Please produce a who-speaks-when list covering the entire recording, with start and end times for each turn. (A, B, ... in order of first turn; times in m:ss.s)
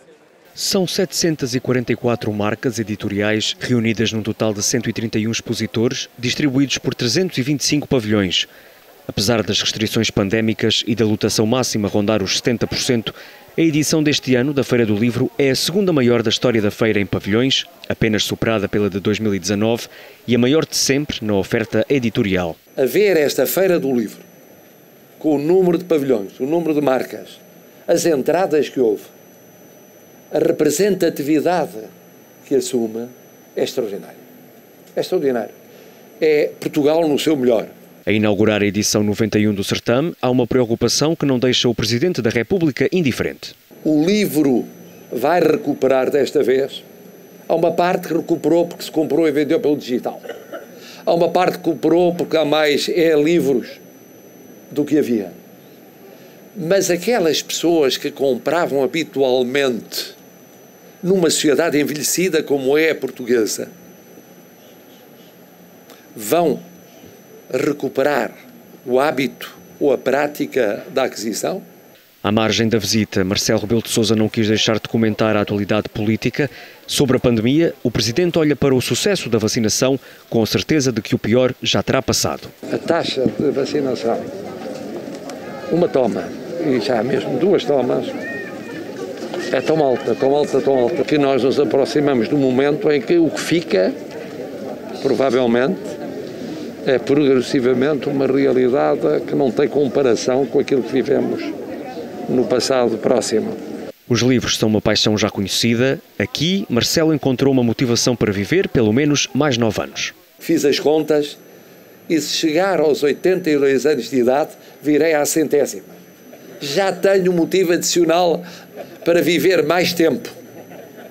0:00.6-0:08.5 A
0:09.1-0:22.6 A
0:22.8-0:24.2 B
0:25.2-0:29.1 B
0:30.3-0:31.9 B
0:32.4-0:34.2 B
0:35.0-0:35.5 B
0:36.2-0:37.7 B
0:38.0-0:43.5 A
0:43.8-0:46.8 B
0:47.5-0:50.2 B
0:51.0-0:53.8 B
0:54.7-0:55.4 B
0:56.5-1:00.2 B
1:01.0-1:03.7 B
1:06.1-1:06.6 B
1:07.5-1:11.6 B
1:12.2-1:22.5 A
1:22.7-1:24.3 B
1:25.7-1:28.1 B
1:29.5-1:34.0 B
1:35.0-1:35.8 B
1:36.8-1:41.5 B
1:42.3-1:43.6 B
1:44.1-1:50.1 A
1:50.4-1:51.4 B
1:52.1-1:56.0 B
1:56.6-1:58.4 B
1:59.0-2:00.3 B